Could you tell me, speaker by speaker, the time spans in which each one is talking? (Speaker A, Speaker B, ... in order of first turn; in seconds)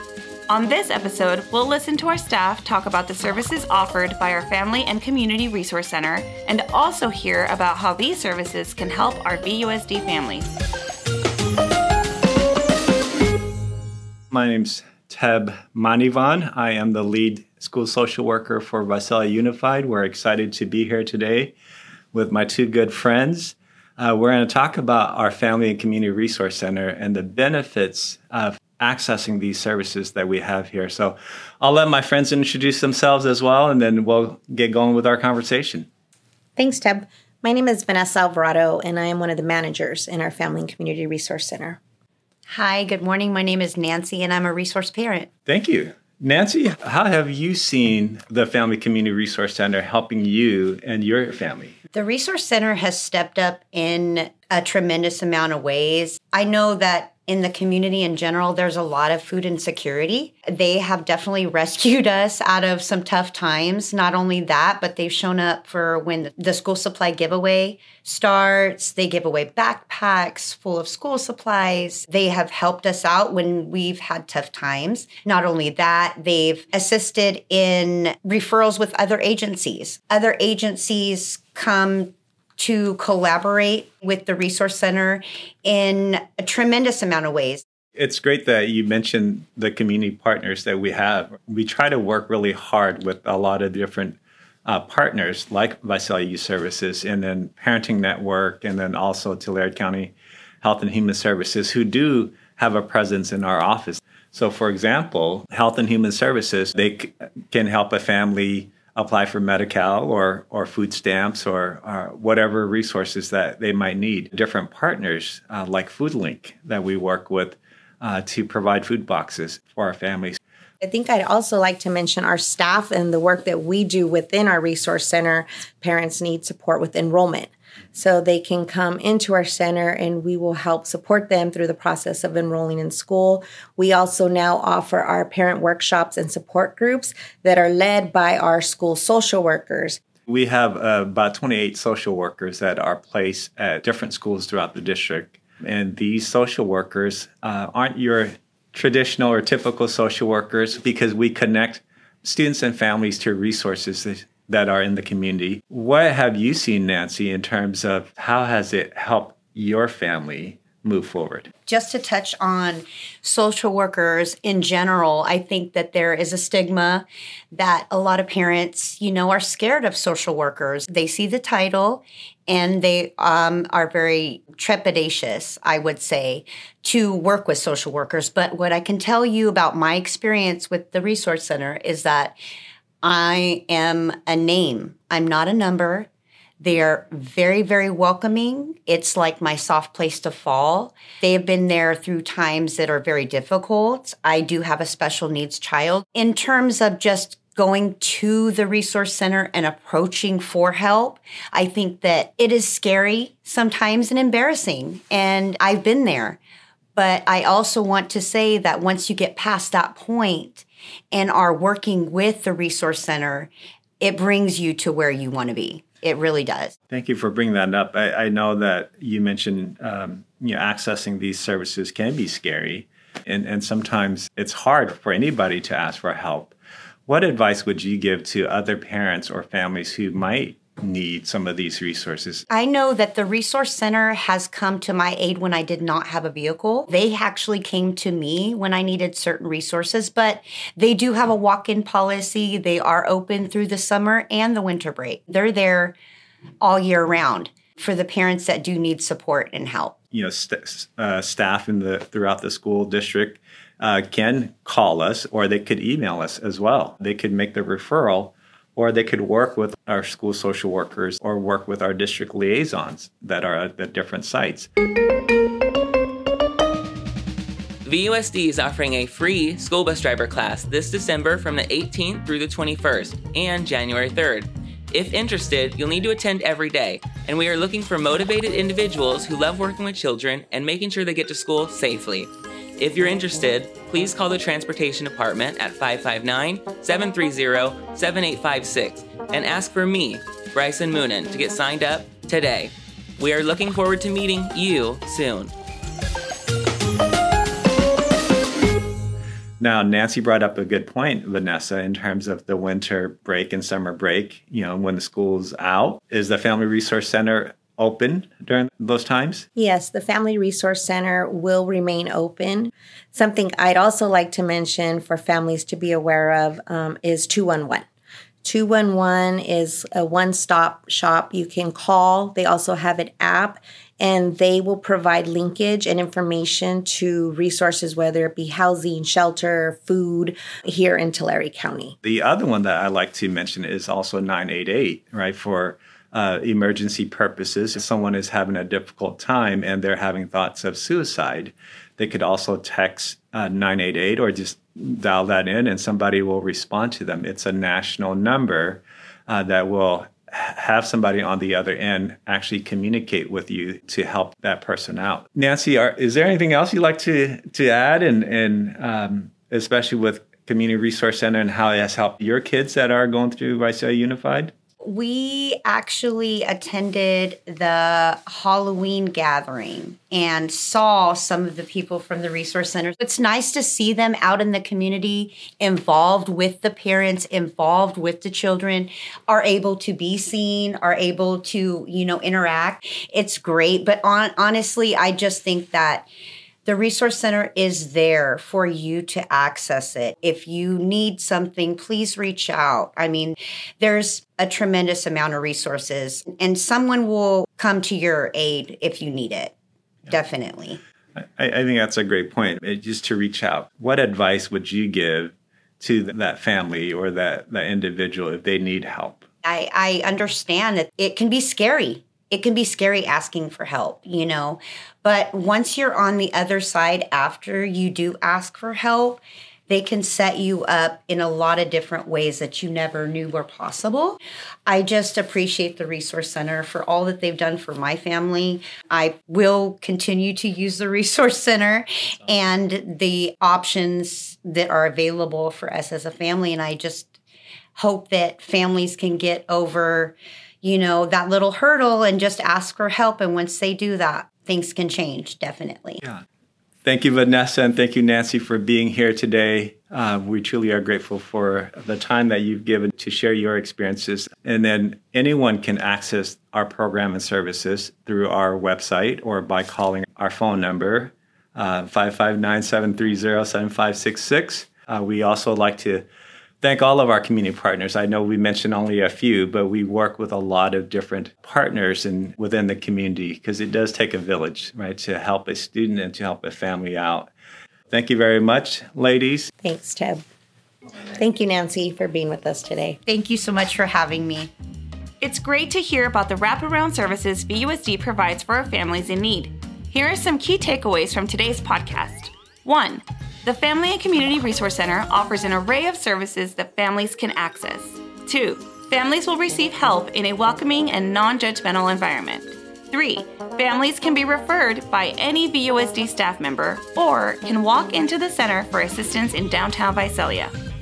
Speaker A: 0.5-10.5, 485.2-510.5
Speaker B: 14.3-21.6, 22.1-35.9, 45.5-51.7, 88.0-120.4, 140.3-161.5, 216.9-226.5, 227.1-232.4, 250.1-264.7, 299.6-309.5, 332.0-364.5, 401.2-409.2, 446.9-466.1, 466.6-477.3, 477.9-479.5
Speaker C: 36.6-41.8, 120.8-140.0, 309.6-317.9, 318.4-331.9, 479.6-480.2, 481.2-483.0
Speaker D: 42.5-45.3, 51.9-87.6, 161.7-182.4, 183.0-186.1, 186.6-206.4, 207.0-213.5, 214.0-216.7, 232.5-246.0, 246.6-249.9, 364.8-386.1, 386.6-399.5, 400.1-400.8, 409.4-437.1, 437.8-446.0, 483.1-484.5
Speaker E: 267.8-295.5